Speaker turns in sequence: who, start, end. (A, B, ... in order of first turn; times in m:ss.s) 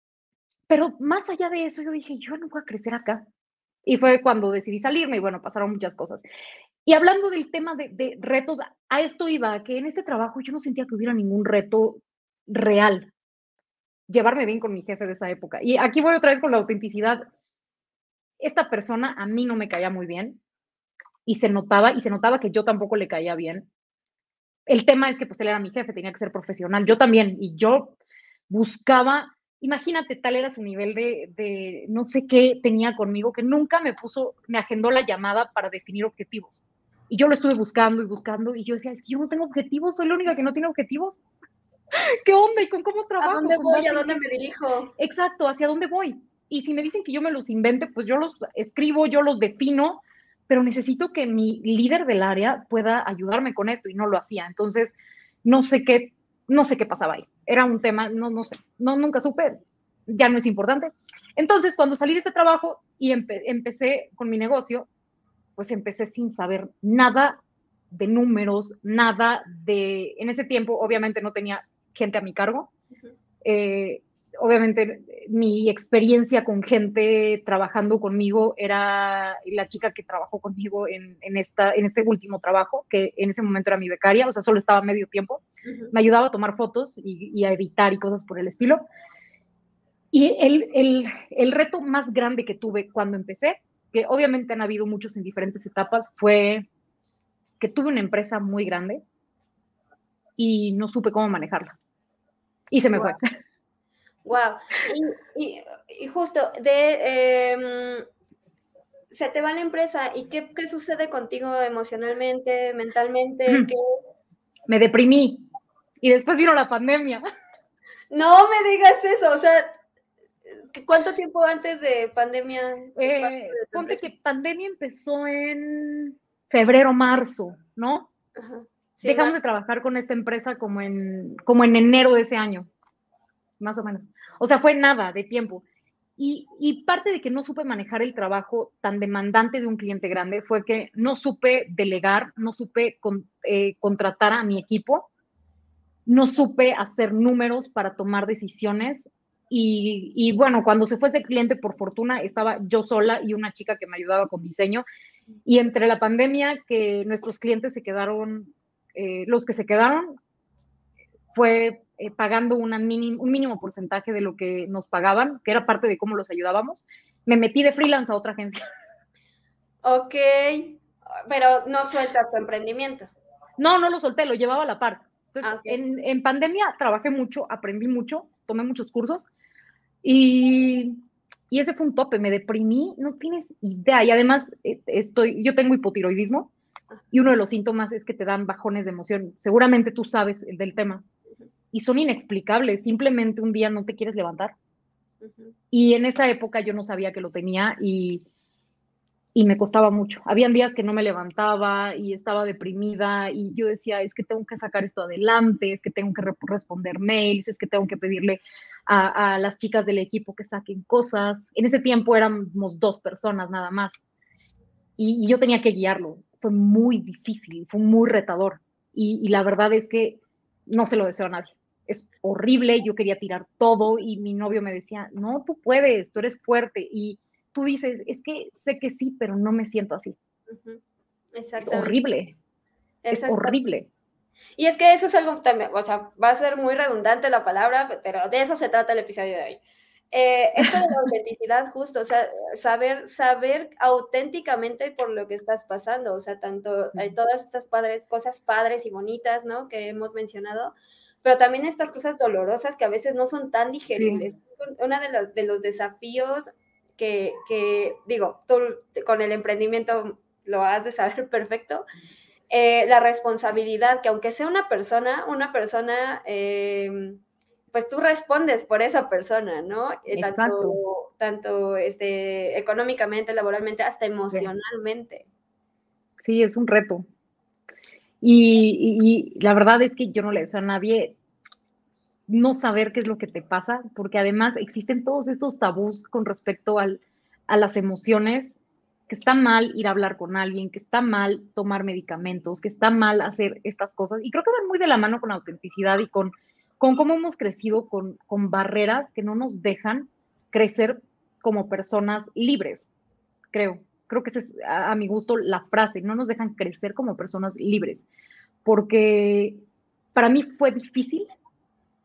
0:00.7-0:03.2 A
0:03.8-0:06.2 A
0:06.8-0:13.1 A
0:14.1-0:17.2 A
0:18.4-0:20.4 A
0:21.2-0:23.7 A
0:24.7-0:28.0 A
0:28.5-0:41.2 A
0:41.9-0:44.2 A
0:43.2-0:44.9 B
0:45.0-1:04.9 A
1:05.6-1:07.4 A
1:07.9-1:12.7 A
1:13.4-1:28.8 A
1:25.6-1:25.9 B
1:30.1-1:36.7 A
1:37.6-1:39.0 A
1:40.4-1:41.7 A
1:42.7-1:43.2 A
1:42.9-1:43.2 B
1:44.2-1:48.0 B
1:49.1-1:53.8 B
1:54.7-1:55.5 A
1:56.0-1:57.2 A
1:58.1-1:59.8 B
2:00.7-2:04.0 B
2:03.0-2:08.1 A
2:08.4-2:09.4 B
2:09.0-2:12.7 A
2:13.6-2:15.6 A
2:16.2-2:25.1 A
2:26.0-2:34.8 A
2:35.4-2:40.2 A
2:41.3-2:48.6 A
2:49.8-2:53.1 B
2:53.6-2:59.3 A
2:55.4-2:55.8 B
3:00.0-3:01.0 A
3:01.5-3:06.5 A
3:07.1-3:11.0 A
3:11.7-3:14.5 A
3:15.2-3:15.5 B
3:15.7-3:18.2 A
3:19.3-3:34.0 A
3:35.0-3:50.2 A
3:50.5-3:50.8 B
3:51.3-3:52.0 B
3:51.6-3:52.3 A
3:53.0-3:53.6 B
3:53.1-3:53.9 A
3:54.6-3:59.6 B
4:00.1-4:21.8 B
4:13.9-4:14.2 A
4:22.5-4:27.2 B
4:27.7-4:35.2 B
4:30.1-4:30.8 A
4:36.2-4:37.0 A
4:38.2-4:41.2 A
4:42.3-4:48.6 A
4:49.1-5:02.9 A
5:03.5-5:08.0 A
5:08.6-5:09.6 A
5:10.1-5:11.3 A